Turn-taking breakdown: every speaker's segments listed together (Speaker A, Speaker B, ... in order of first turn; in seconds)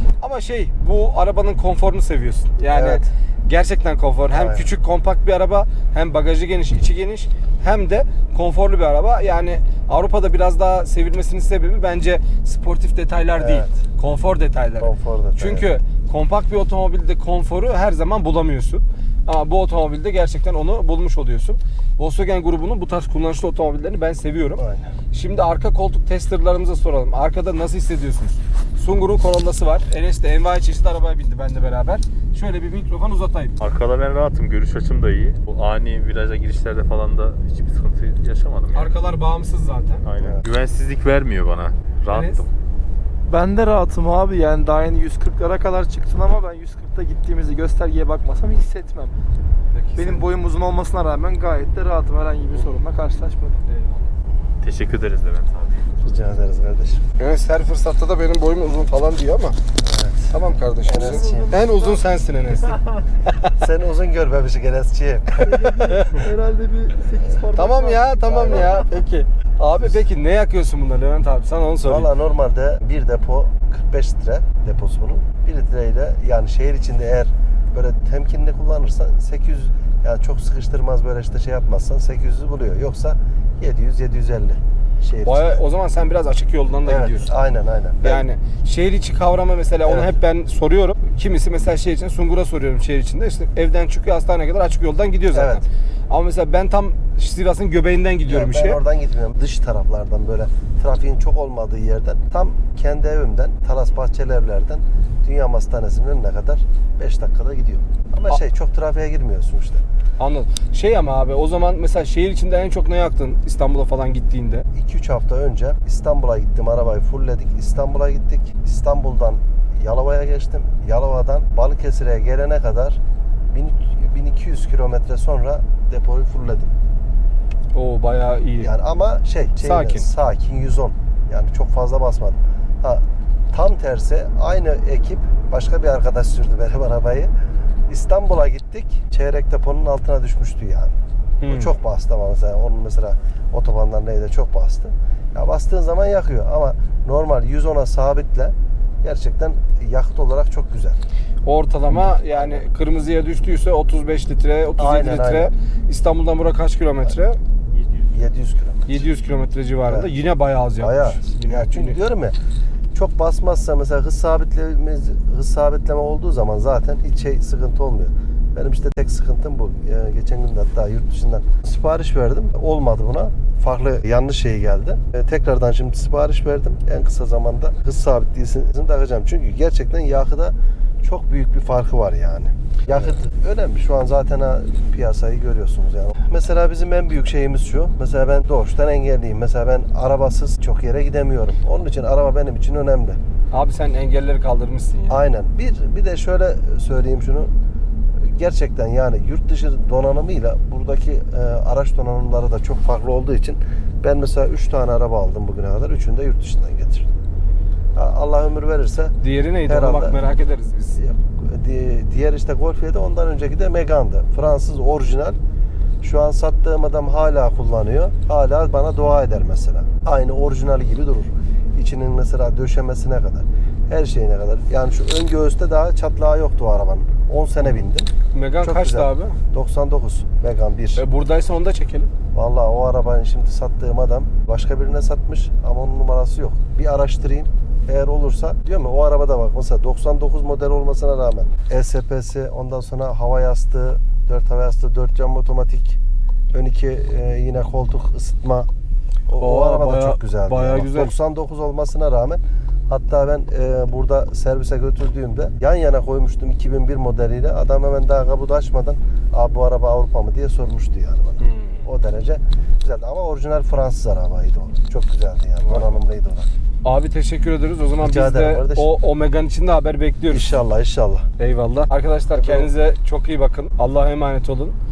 Speaker A: 0.2-33.5, 38.7-40.0, 42.1-42.4, 49.7-50.3, 53.7-54.0, 57.2-59.6, 60.3-62.8, 65.8-66.2, 67.5-72.1, 85.2-87.3, 88.0-98.8, 110.2-114.7, 127.7-128.7, 129.6-130.1, 141.4-141.7, 151.4-157.4, 158.9-162.0, 193.5-195.2, 209.2-211.0, 228.3-229.4, 231.0-232.1, 249.4-251.1, 261.4-261.8, 265.6-266.0, 266.8-270.5, 271.4-274.8
Speaker B: 2.7-3.1, 4.3-4.7, 13.3-13.8, 14.8-15.7, 24.6-24.9, 56.0-57.0, 59.8-61.8, 63.5-66.3, 68.2-68.9, 71.8-85.6, 86.8-88.2, 89.8-90.1, 95.3-95.6, 98.2-109.8, 114.7-126.7, 128.6-137.3, 137.9-140.9, 141.5-151.0, 151.9-152.6, 154.8-155.5, 158.1-159.0, 159.8-160.1, 160.8-162.4, 162.9-193.2, 195.1-197.5, 198.2-207.1, 207.9-210.2, 211.0-215.4, 216.0-231.0, 232.3-246.0, 246.5-248.7, 249.3-266.5, 268.0-268.9, 270.3-271.3, 272.3-272.7
Speaker C: 33.6-39.0, 40.0-42.5, 54.6-55.9
Speaker D: 43.3-49.1, 50.0-53.6, 60.9-62.1, 65.4-68.3